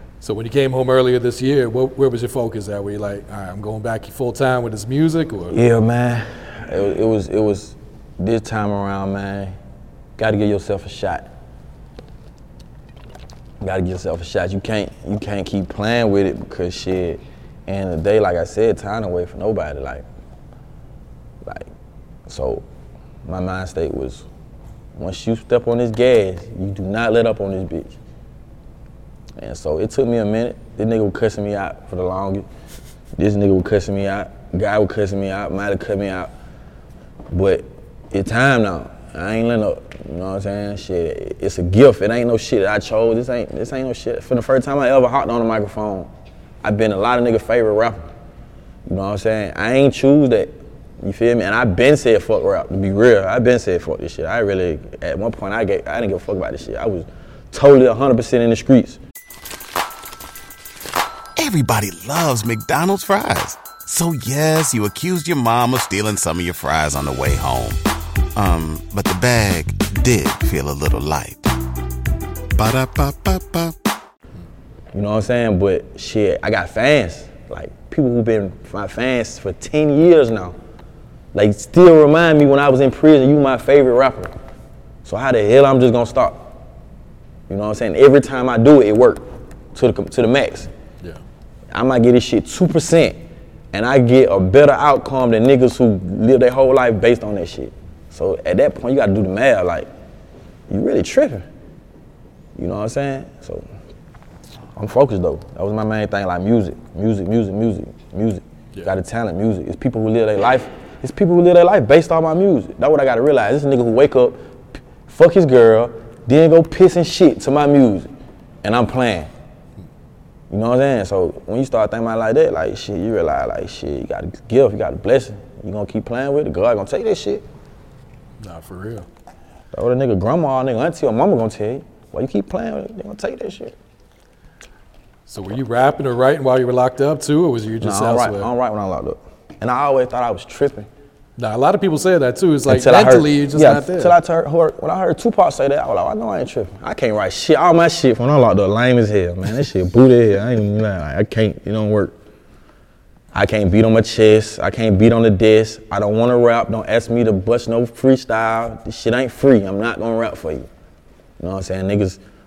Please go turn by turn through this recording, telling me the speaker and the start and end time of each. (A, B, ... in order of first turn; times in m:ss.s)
0:00.2-0:05.6 A
0:05.5-0:09.6 B
0:10.2-0:11.3 B
0:13.6-0:20.0 B
0:21.4-0:21.7 B
0:22.3-0:22.6 B
0:23.2-0:24.3 B
0:25.0-0:28.0 B
0:29.4-0:32.5 B
0:33.2-0:36.3 B
0:37.3-0:46.1 B
0:46.6-0:48.1 B
0:48.9-0:59.0 B
1:01.4-1:07.8 C
1:08.4-1:11.5 C
1:12.6-1:13.8 C
1:14.9-1:20.6 B
1:21.3-1:24.3 B
1:25.0-1:26.6 B
1:27.5-1:30.7 B
1:31.7-1:33.2 B
1:33.7-1:39.9 B
1:40.7-1:41.5 B
1:42.6-1:43.6 B
1:44.8-1:54.4 B
1:55.1-1:58.1 B
1:58.6-1:59.3 B
2:00.5-2:07.4 B
2:08.4-2:09.1 A
2:09.7-2:13.8 B
2:15.3-2:18.5 A
2:17.8-2:20.9 B
2:21.4-2:24.2 A
2:22.7-2:32.2 B
2:33.3-2:40.7 B
2:41.4-2:42.2 B